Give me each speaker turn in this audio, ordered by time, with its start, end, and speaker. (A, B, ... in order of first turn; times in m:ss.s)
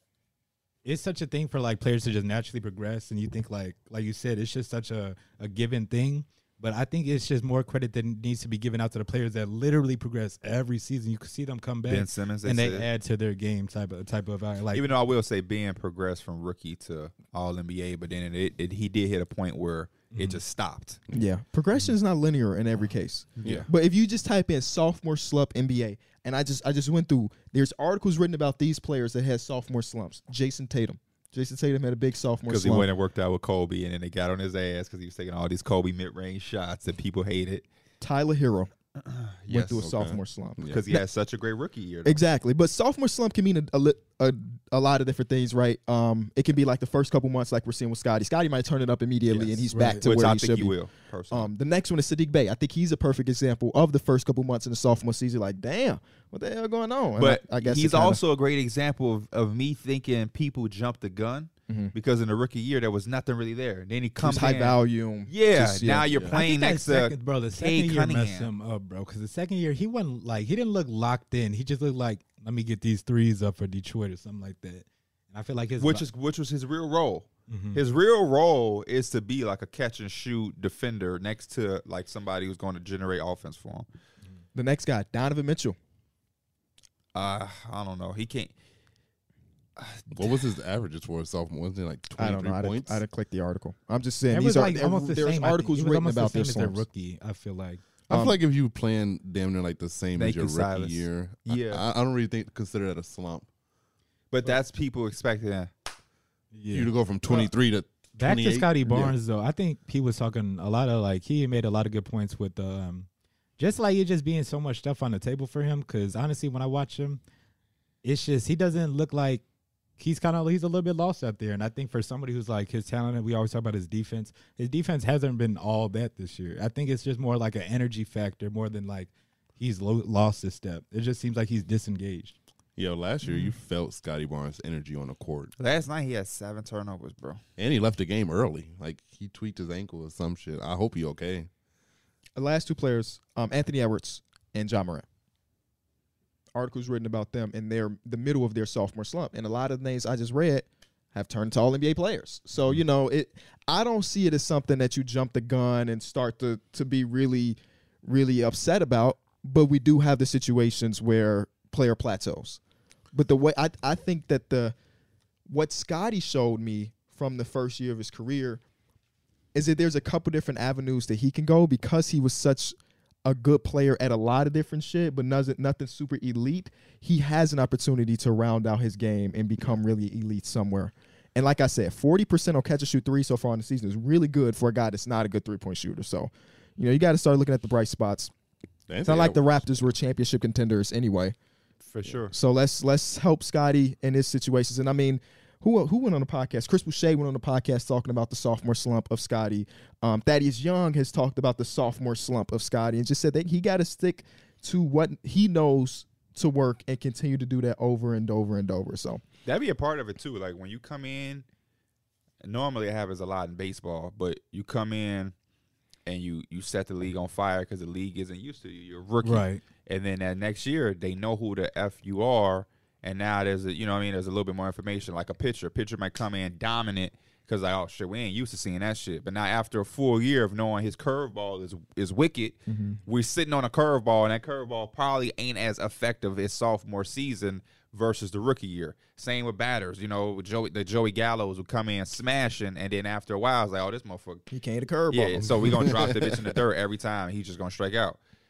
0:00.8-0:14.9 A
0:11.9-0:12.9 B
0:14.7-0:21.0 B
0:20.1-0:20.4 A
0:21.1-0:32.9 C
0:23.4-0:23.7 B
0:32.5-0:37.6 B
0:38.0-0:38.7 C
0:39.0-0:39.9 B
0:39.5-0:41.0 C
0:39.8-0:40.8 D
0:40.7-0:42.2 B
0:42.0-0:50.7 C
0:49.3-0:51.5 B
0:49.7-0:50.0 A
0:51.3-0:58.2 C
0:57.2-1:08.5 B
1:01.7-1:01.9 C
1:04.2-1:06.1 C
1:06.3-1:16.0 A
1:15.8-1:23.9 B
1:17.5-1:17.8 A
1:24.5-1:25.8 C
1:27.1-1:28.5 B
1:29.8-1:30.4 B
1:30.1-1:33.0 D
1:32.2-1:36.9 C
1:34.3-1:37.8 A
1:38.1-1:43.5 D
1:38.1-1:38.4 C
1:40.2-1:41.8 B
1:44.3-1:45.7 B
1:46.5-1:47.5 A
1:46.7-1:49.2 D
1:48.2-1:57.2 A
1:58.0-1:59.4 A
2:00.0-2:12.4 A
2:12.8-2:15.5 D
2:13.3-2:13.5 A
2:15.6-2:17.4 B
2:17.6-2:21.5 D
2:22.4-2:25.0 C
2:26.5-2:42.6 C
2:43.1-2:44.7 C
2:45.5-2:48.6 C
2:49.5-3:08.3 C
3:08.9-3:09.9 D
3:09.0-3:11.4 C
3:11.8-3:12.3 B
3:12.3-3:29.2 C
3:29.4-3:31.4 B
3:32.4-3:35.3 B
3:36.0-4:04.5 B
3:39.2-3:39.6 A
3:52.7-3:53.0 C
4:04.5-4:06.1 C
4:05.1-4:08.2 B
4:05.4-4:06.3 D